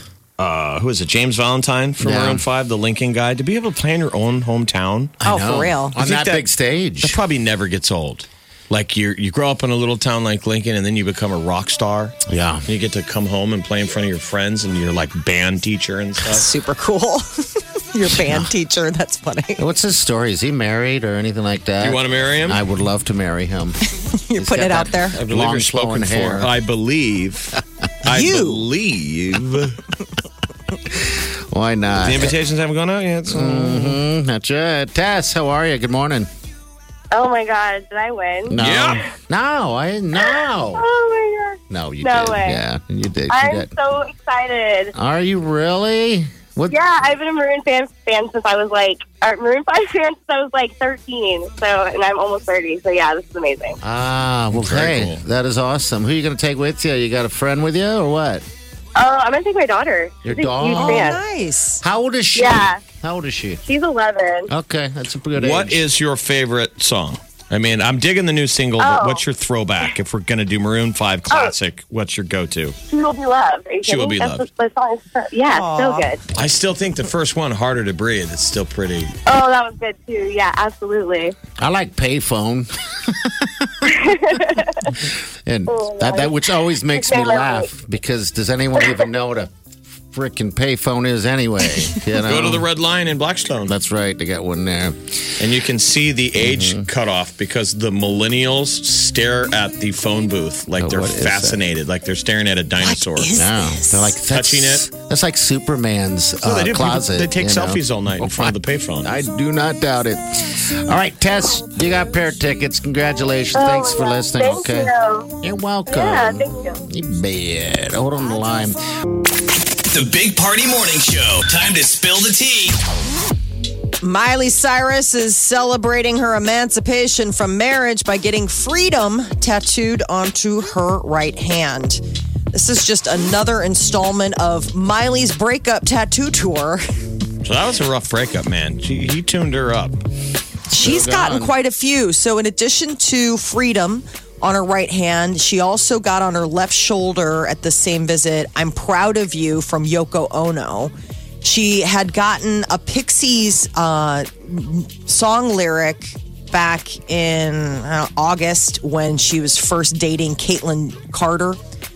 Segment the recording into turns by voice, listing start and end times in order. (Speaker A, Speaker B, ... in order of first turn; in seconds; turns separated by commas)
Speaker A: 0.4-5.2, Speaker B: 2.0-2.4, Speaker B: 5.2-7.2, Speaker C: 5.2-6.0, Speaker A: 5.9-6.5, Speaker A: 7.0-16.5, Speaker B: 12.3-12.7, Speaker C: 16.3-19.6, Speaker B: 18.1-18.5, Speaker B: 19.6-23.8, Speaker A: 21.8-22.6, Speaker C: 23.9-25.2, Speaker B: 24.4-26.5, Speaker A: 25.1-29.8, Speaker C: 28.1-28.6, Speaker B: 30.9-32.3, Speaker A: 32.0-34.0, Speaker B: 33.3-36.3, Speaker D: 37.1-38.5, Speaker B: 38.5-40.9, Speaker A: 38.5-39.0, Speaker D: 40.2-42.6, Speaker B: 41.7-43.7, Speaker D: 43.3-44.9, Speaker B: 44.9-46.8, Speaker D: 46.7-53.8, Speaker B: 53.8-58.4, Speaker A: 54.5-55.2, Speaker D: 59.0-61.2, Speaker B: 60.2-61.1, Speaker C: 60.7-61.8, Speaker B: 61.8-63.6, Speaker D: 62.3-62.8, Speaker D: 63.6-64.5, Speaker B: 64.5-65.8, Speaker A: 65.3-72.8, Speaker D: 68.8-69.2, Speaker D: 72.9-76.2, Speaker A: 73.8-74.5, Speaker C: 75.5-76.1, Speaker A: 76.3-79.1, Speaker D: 79.2-81.3, Speaker B: 81.6-83.9, Speaker D: 83.9-84.9, Speaker B: 85.0-89.5, Speaker D: 85.7-87.7, Speaker B: 90.1-92.7, Speaker A: 92.2-93.7, Speaker B: 93.7-95.1, Speaker A: 95.4-103.4, Speaker B: 96.3-96.9, Speaker B: 100.8-101.6, Speaker C: 102.8-104.2, Speaker B: 103.3-118.8, Speaker A: 104.3-104.8, Speaker A: 106.4-109.1, Speaker D: 113.5-115.3, Speaker D: 115.9-116.8, Speaker E: 119.9-122.8, Speaker C: 124.0-136.8, Speaker A: 137.4-140.0, Speaker C: 140.7-161.6, Speaker B: 140.7-141.6